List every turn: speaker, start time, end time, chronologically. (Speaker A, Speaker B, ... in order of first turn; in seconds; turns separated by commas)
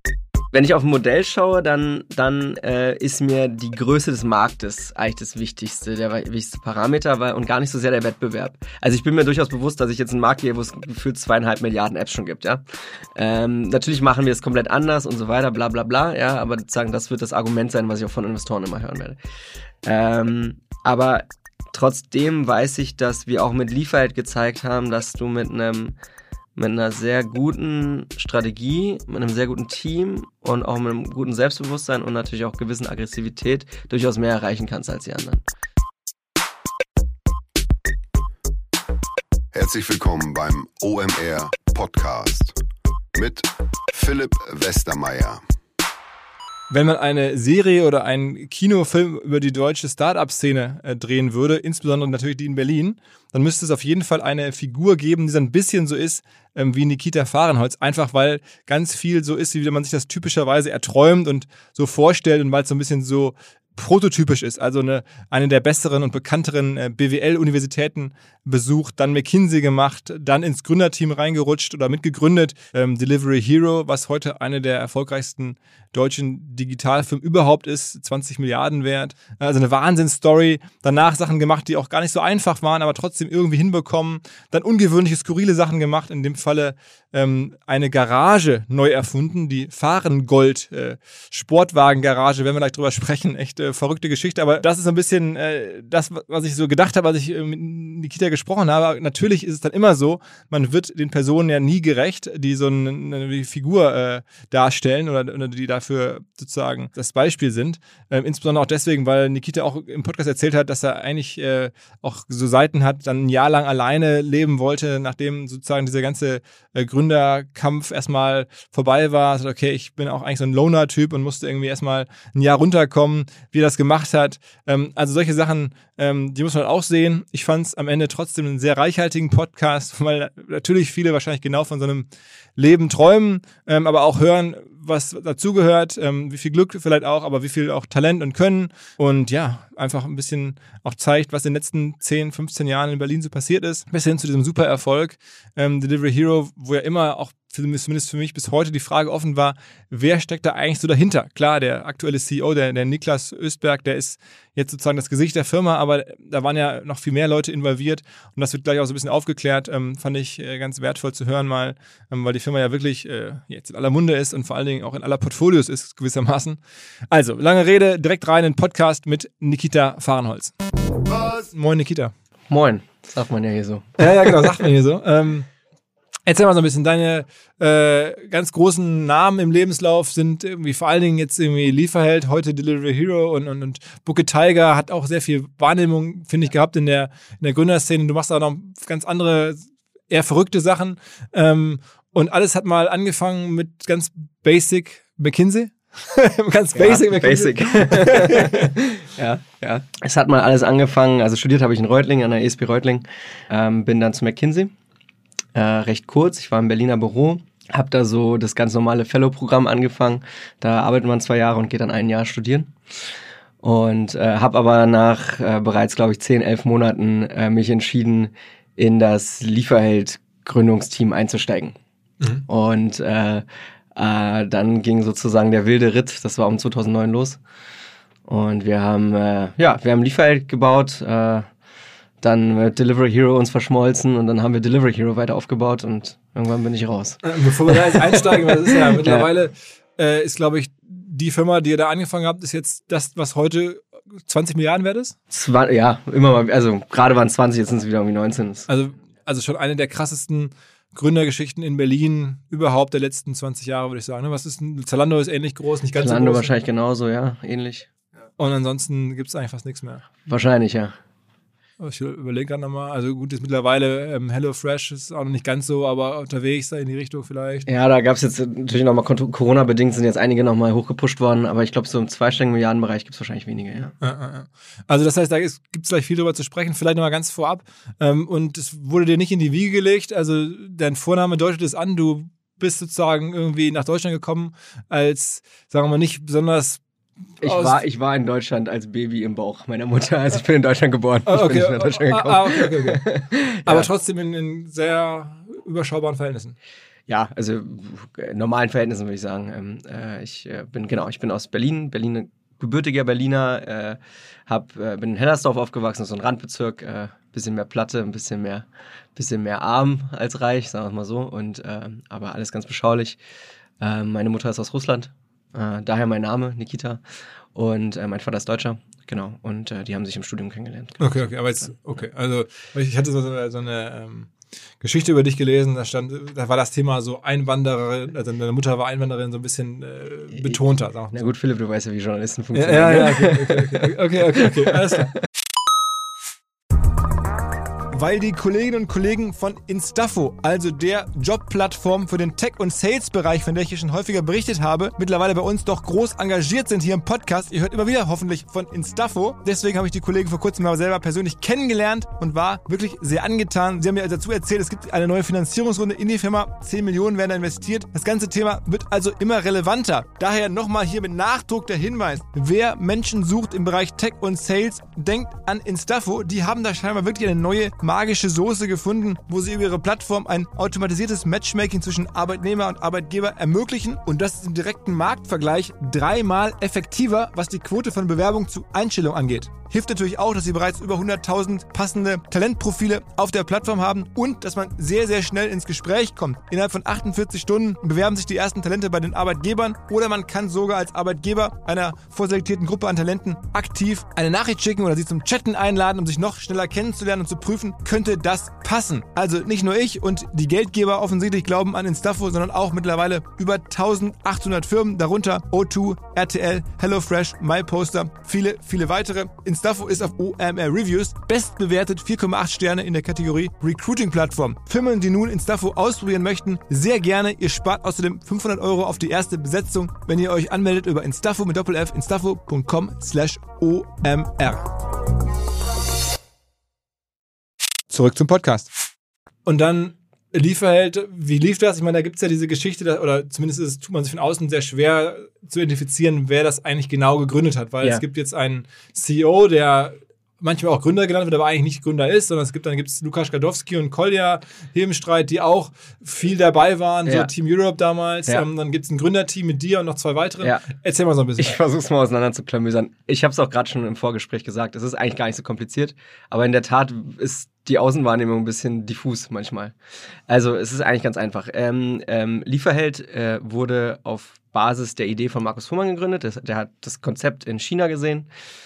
Speaker A: 0.5-12.6, Speaker A: 13.2-19.2, Speaker A: 19.8-26.0, Speaker A: 26.6-35.5, Speaker B: 39.5-42.6, Speaker B: 43.1-45.4, Speaker C: 46.7-166.6, Speaker C: 167.1-170.6, Speaker C: 171.2-172.1, Speaker A: 172.5-174.3, Speaker C: 174.0-175.5, Speaker C: 176.3-198.7, Speaker A: 196.7-204.7, Speaker A: 205.6-212.8, Speaker A: 213.6-221.8, Speaker A: 222.5-227.4, Speaker A: 228.3-231.5, Speaker A: 232.2-239.3, Speaker C: 237.2-245.2, Speaker A: 245.3-248.7, Speaker C: 248.7-256.5, Speaker A: 256.0-257.9, Speaker C: 258.4-260.1, Speaker A: 260.3-261.0, Speaker C: 261.8-267.7, Speaker A: 267.7-273.9, Speaker C: 274.0-286.8, Speaker C: 287.4-287.8, Speaker A: 287.4-293.9, Speaker C: 291.3-293.1, Speaker C: 293.6-296.6, Speaker A: 297.1-313.2, Speaker A: 313.8-317.0, Speaker A: 317.6-321.3, Speaker C: 321.0-331.2, Speaker A: 331.1-334.8, Speaker C: 332.5-335.2, Speaker C: 337.9-424.7, Speaker C: 427.9-428.7, Speaker C: 429.4-451.6, Speaker A: 447.1-447.3, Speaker A: 451.4-459.8, Speaker A: 460.3-468.3